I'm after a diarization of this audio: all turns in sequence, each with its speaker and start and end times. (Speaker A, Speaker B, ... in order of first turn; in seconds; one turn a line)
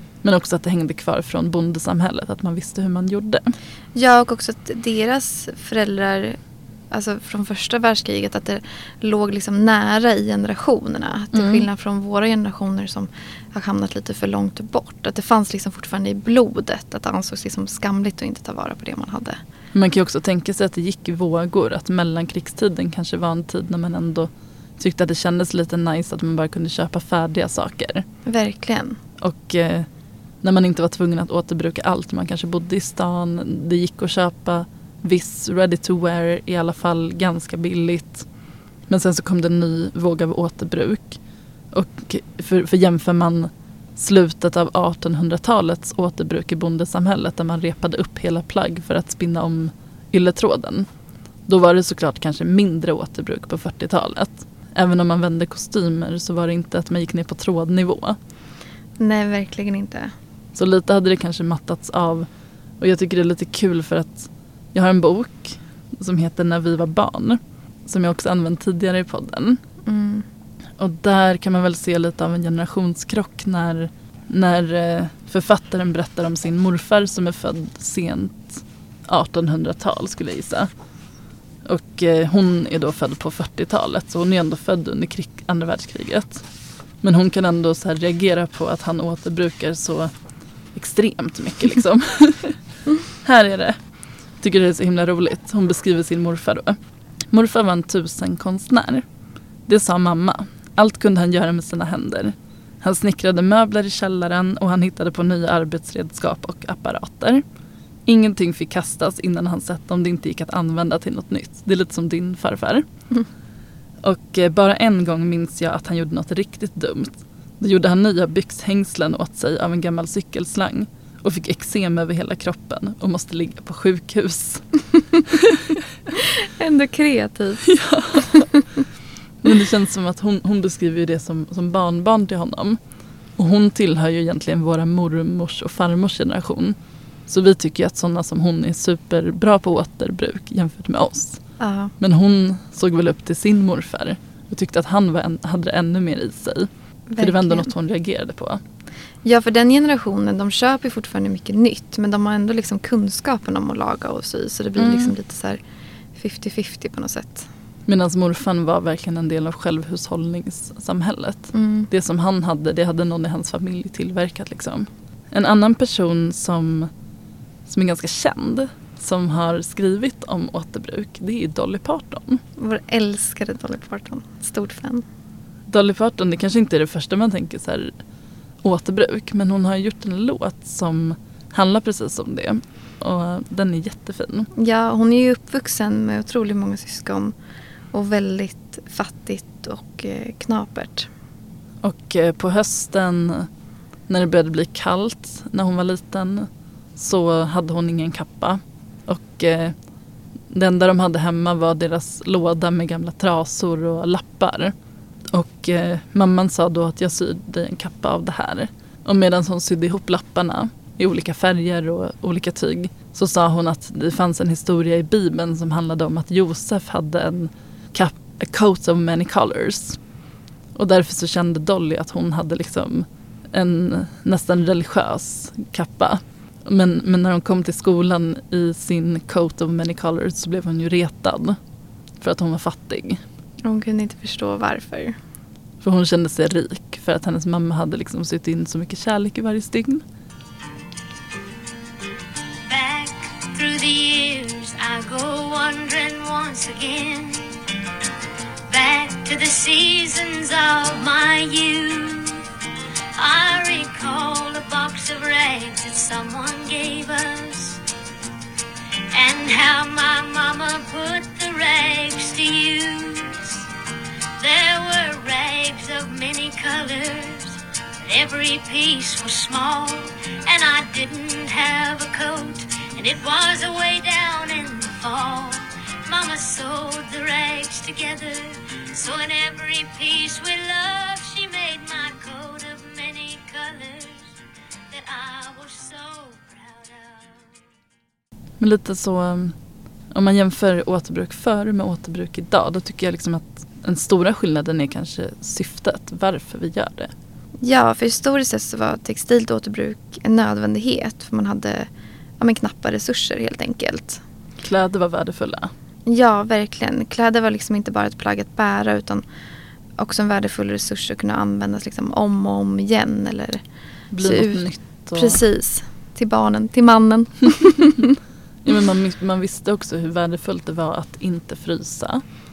Speaker A: 0.2-3.5
Speaker B: 4.0-6.4
Speaker B: 6.9-19.4
Speaker A: 11.3-11.7
Speaker A: 19.7-28.1
Speaker B: 28.3-29.0
Speaker A: 29.2-29.9
Speaker A: 30.4-38.3
Speaker A: 38.9-41.2
Speaker A: 41.7-50.9
Speaker A: 51.5-58.2
Speaker B: 59.0-60.1
Speaker A: 60.5-62.3
Speaker A: 62.8-69.6
Speaker B: 69.9-70.2
Speaker A: 70.8-80.7
Speaker A: 81.7-86.4
Speaker A: 87.0-90.1
Speaker A: 90.8-92.6
Speaker A: 93.2-93.8
Speaker A: 94.4-96.8
Speaker A: 97.3-99.0
Speaker A: 99.7-107.4
Speaker A: 108.1-112.8
Speaker A: 114.0-124.6
Speaker A: 125.3-125.6
Speaker B: 126.6-128.6
Speaker A: 127.7-128.5
Speaker A: 129.4-132.8
Speaker A: 133.4-136.8
Speaker A: 137.3-141.4
Speaker B: 141.6-141.9
Speaker A: 142.0-148.6
Speaker B: 147.1-147.7
Speaker B: 149.2-155.6
Speaker A: 154.8-155.1
Speaker B: 156.2-157.5
Speaker A: 157.9-166.9
Speaker B: 161.5-161.9
Speaker A: 167.7-172.4
Speaker B: 172.6-175.0
Speaker A: 175.7-177.9
Speaker A: 178.6-184.5
Speaker B: 184.6-187.3
Speaker B: 187.9-191.1
Speaker A: 191.8-193.5
Speaker A: 194.1-199.8
Speaker A: 200.5-204.7
Speaker A: 205.3-220.0
Speaker A: 220.8-231.6
Speaker A: 232.2-233.2
Speaker B: 233.7-235.2
Speaker A: 235.8-240.0
Speaker C: 242.7-247.5
Speaker C: 248.7-252.4
Speaker C: 253.2-257.8
Speaker C: 259.1-263.7
Speaker C: 264.4-284.3
Speaker C: 284.9-287.6
Speaker A: 288.6-289.6
Speaker A: 290.1-297.1
Speaker B: 297.6-301.9
Speaker B: 302.4-304.2
Speaker A: 304.6-305.7
Speaker B: 306.1-309.2
Speaker B: 310.0-313.6
Speaker A: 314.1-315.4
Speaker B: 314.2-318.1
Speaker A: 318.6-322.2